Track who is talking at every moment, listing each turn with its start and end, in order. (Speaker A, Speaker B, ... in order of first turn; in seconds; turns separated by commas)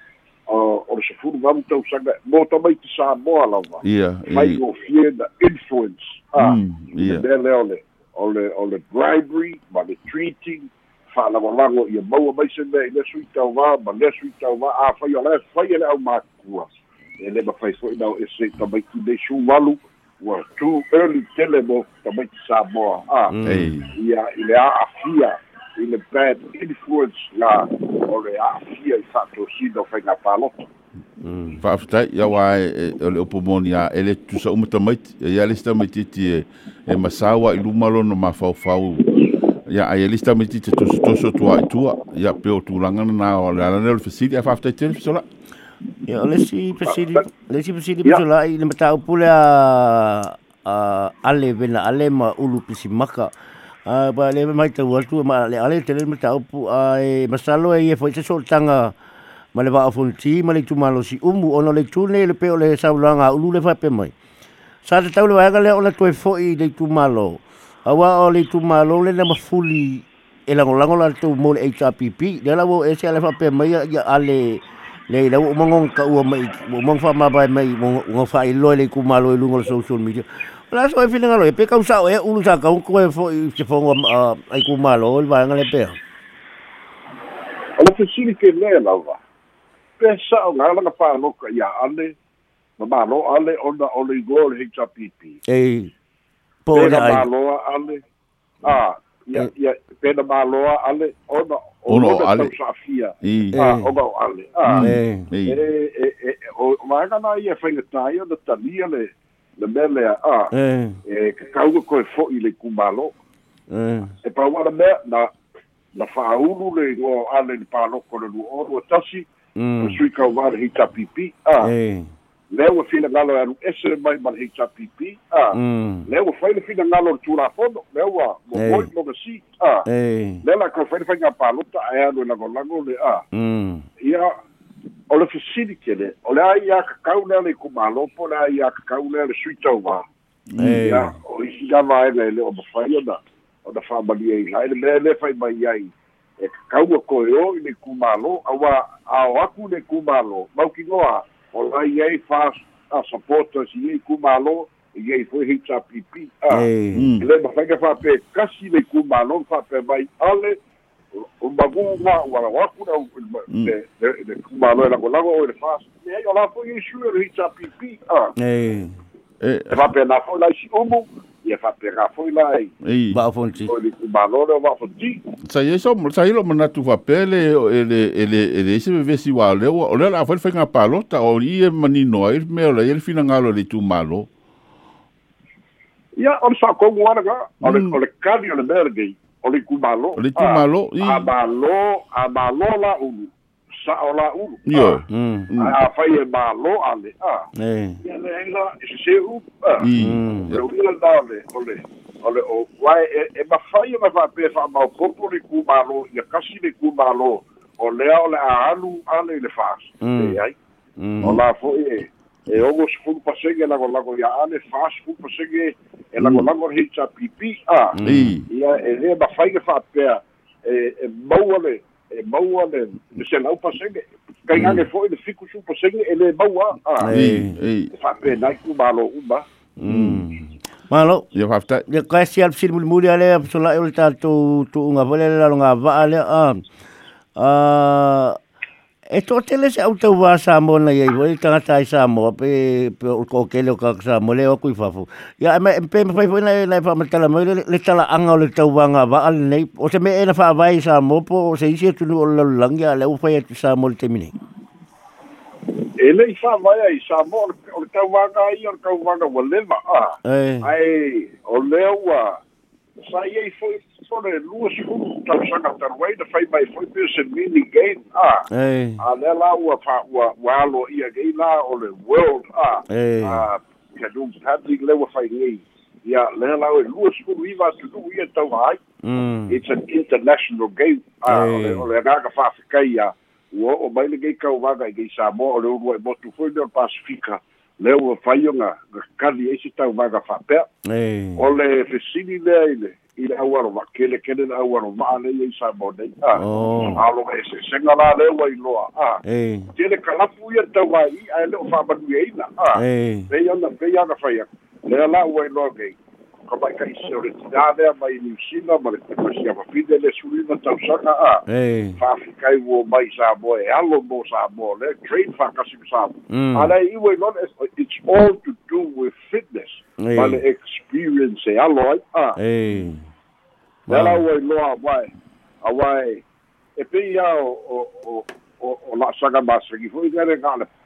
Speaker A: 0.5-16.7, Speaker B: 3.8-4.6, Speaker B: 6.4-7.2, Speaker A: 17.2-23.3, Speaker C: 23.3-23.7, Speaker B: 23.4-23.9, Speaker A: 23.9-30.7, Speaker C: 31.2-31.6, Speaker B: 31.6-39.0, Speaker B: 39.7-45.2, Speaker C: 46.0-53.3, Speaker A: 46.8-47.2, Speaker C: 53.9-58.9, Speaker C: 59.5-64.1, Speaker C: 64.8-86.0, Speaker A: 87.8-89.2, Speaker A: 90.0-92.2, Speaker A: 92.8-95.4, Speaker C: 95.5-95.9, Speaker C: 96.7-97.3, Speaker A: 96.7-98.0, Speaker A: 98.6-104.9, Speaker B: 101.9-102.5, Speaker B: 103.2-103.6, Speaker C: 103.5-103.9, Speaker B: 104.6-105.6, Speaker C: 104.8-105.3, Speaker A: 105.4-110.5, Speaker C: 110.5-111.0, Speaker A: 111.0-113.1, Speaker C: 113.7-114.1, Speaker A: 114.2-115.3, Speaker A: 115.9-119.3, Speaker C: 119.6-120.0, Speaker A: 119.8-121.7, Speaker C: 121.6-122.1, Speaker A: 122.5-129.9, Speaker C: 125.5-126.1, Speaker C: 128.6-128.9, Speaker C: 129.9-130.4, Speaker A: 130.4-133.2, Speaker C: 133.3-133.8, Speaker A: 134.0-134.3, Speaker A: 135.1-140.0, Speaker B: 140.5-141.0, Speaker C: 140.6-141.1, Speaker A: 140.8-156.7, Speaker C: 156.5-157.1, Speaker B: 156.9-157.2, Speaker A: 157.2-160.6, Speaker A: 161.1-168.3, Speaker C: 168.4-169.0, Speaker B: 169.4-169.8, Speaker A: 169.7-172.7, Speaker B: 172.8-173.2, Speaker C: 173.1-173.7, Speaker A: 173.7-175.3, Speaker B: 175.4-184.3, Speaker A: 186.2-195.0, Speaker B: 187.6-188.0, Speaker B: 190.2-191.3, Speaker B: 194.7-195.7, Speaker C: 195.1-195.5, Speaker A: 195.6-197.4, Speaker C: 197.6-198.0, Speaker A: 198.0-199.9, Speaker B: 199.8-200.6, Speaker C: 200.0-200.6, Speaker A: 200.5-210.6, Speaker C: 210.0-210.4, Speaker C: 211.0-211.4, Speaker A: 211.2-218.0, Speaker B: 216.2-216.4, Speaker C: 217.9-218.3, Speaker B: 218.0-218.4, Speaker A: 218.5-227.1, Speaker C: 227.0-227.6, Speaker B: 227.1-227.9, Speaker A: 227.9-229.4, Speaker C: 229.8-231.3, Speaker B: 229.8-230.3, Speaker B: 231.3-231.8, Speaker C: 231.9-236.6, Speaker C: 237.4-238.4, Speaker C: 239.1-254.3, Speaker A: 256.0-262.4, Speaker C: 260.2-260.7, Speaker A: 263.0-268.5, Speaker C: 268.5-269.0, Speaker A: 269.0-278.8, Speaker C: 272.9-273.4, Speaker C: 279.0-279.6, Speaker A: 279.5-290.7, Speaker C: 281.3-281.9, Speaker C: 290.9-291.4, Speaker A: 291.4-299.2, Speaker C: 296.3-297.0, Speaker C: 299.2-299.7, Speaker A: 299.7-311.4, Speaker C: 302.7-303.3, Speaker C: 311.5-312.0, Speaker A: 312.0-322.4, Speaker C: 316.3-316.7, Speaker C: 320.0-320.4, Speaker C: 322.4-323.0, Speaker C: 323.9-324.2, Speaker A: 323.9-325.1, Speaker A: 325.6-326.2, Speaker A: 326.8-330.7